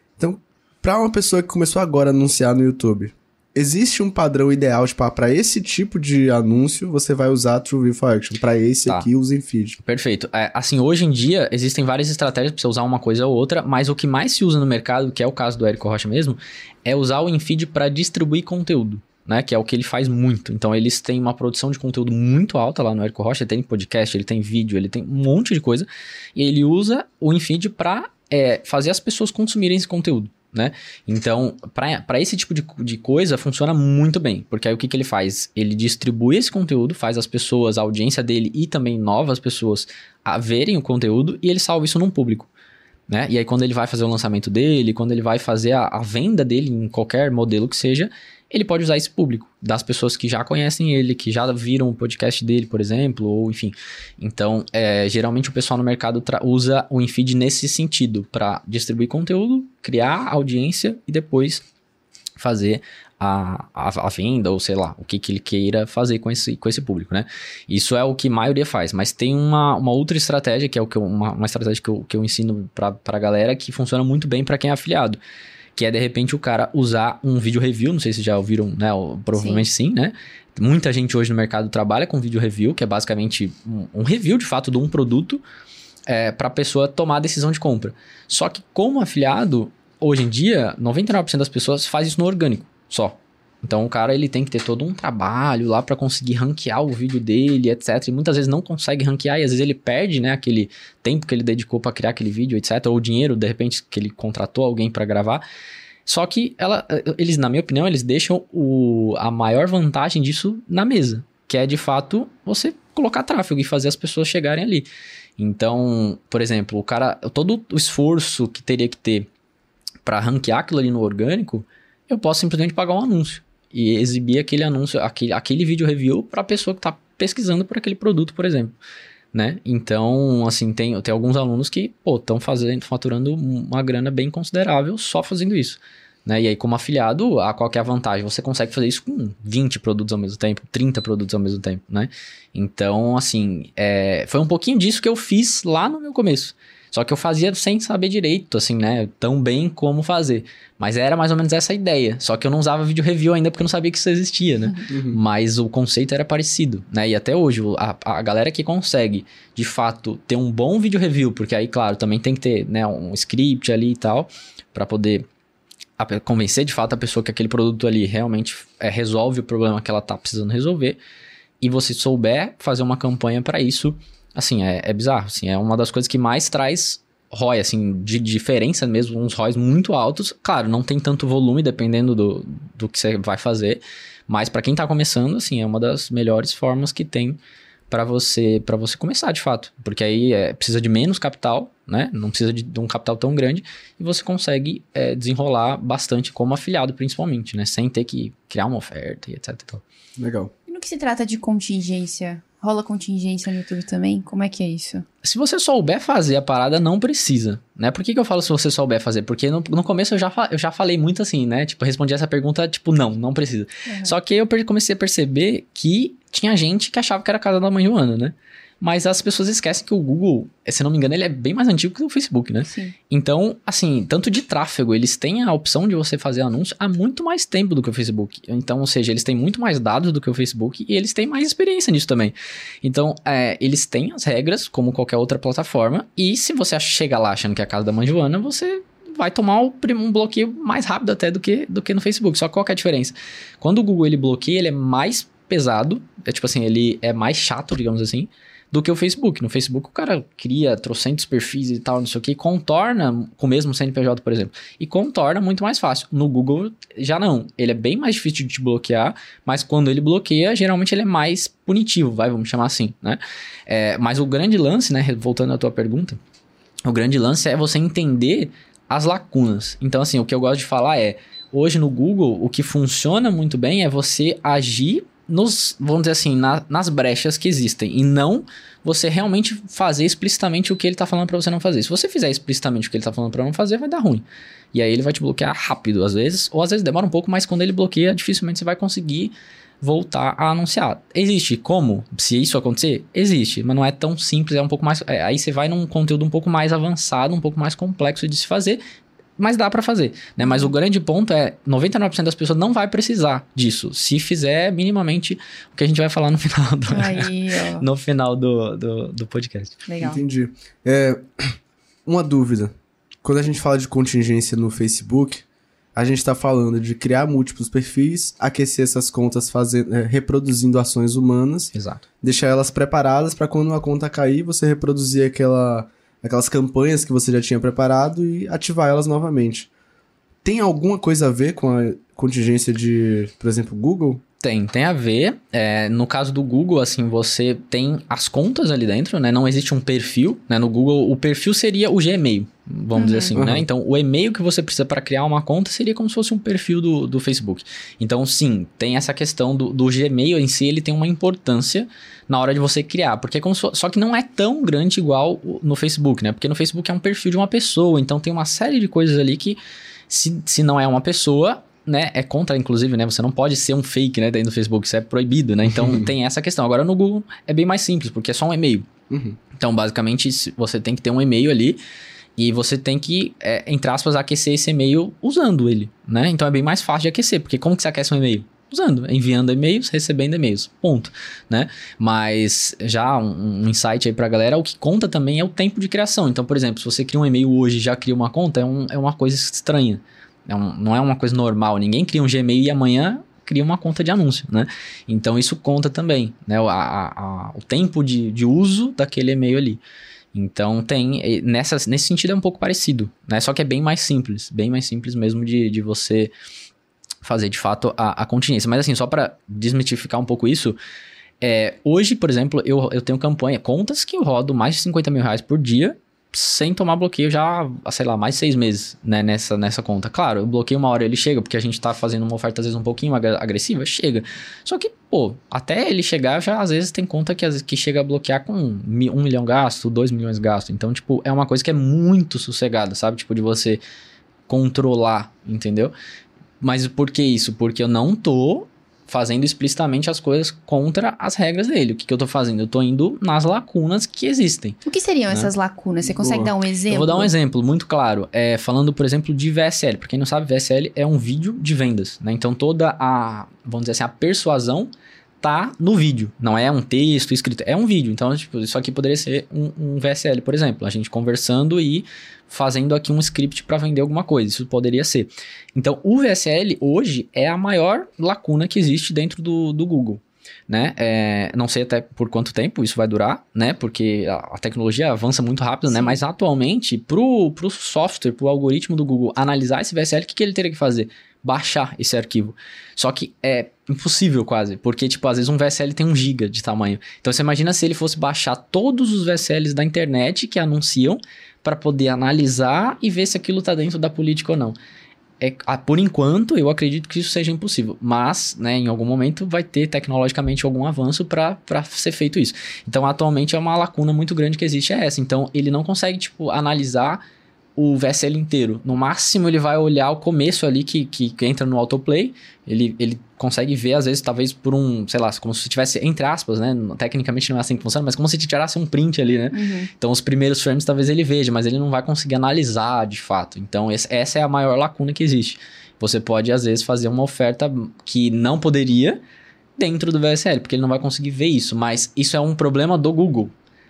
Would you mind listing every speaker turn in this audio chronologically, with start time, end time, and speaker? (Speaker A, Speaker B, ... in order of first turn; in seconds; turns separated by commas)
Speaker A: 0.2-9.8, Speaker B: 9.8-42.5, Speaker B: 43.1-61.6, Speaker B: 62.4-75.2, Speaker B: 75.8-85.4, Speaker C: 79.3-79.7, Speaker B: 86.1-105.4, Speaker B: 106.0-119.3, Speaker B: 120.0-128.7, Speaker B: 129.3-165.3, Speaker A: 154.9-155.2, Speaker B: 166.0-171.0, Speaker B: 171.6-187.4, Speaker B: 187.9-199.8, Speaker A: 200.2-200.5, Speaker C: 200.7-205.0, Speaker B: 205.2-266.2, Speaker C: 213.9-214.1, Speaker C: 222.7-222.9, Speaker B: 266.8-298.8, Speaker B: 299.4-307.3, Speaker C: 300.4-300.7, Speaker C: 306.9-307.8, Speaker B: 307.8-309.8, Speaker C: 309.9-310.2, Speaker A: 310.0-315.4, Speaker A: 315.9-329.7, Speaker B: 321.7-322.0, Speaker A: 330.4-334.2, Speaker B: 334.4-359.6, Speaker C: 342.9-343.4, Speaker A: 343.3-343.7, Speaker B: 360.1-368.9, Speaker A: 365.6-366.1, Speaker A: 369.1-369.4, Speaker B: 369.6-371.8, Speaker B: 372.4-399.8, Speaker B: 400.3-406.3, Speaker B: 407.2-410.8, Speaker B: 411.4-433.8, Speaker B: 434.5-435.9, Speaker B: 436.6-444.8, Speaker C: 444.8-447.3, Speaker A: 446.2-446.5, Speaker B: 446.9-494.8, Speaker C: 475.9-476.2, Speaker B: 495.4-507.2, Speaker B: 507.8-529.2, Speaker C: 519.5-519.9, Speaker B: 529.8-533.5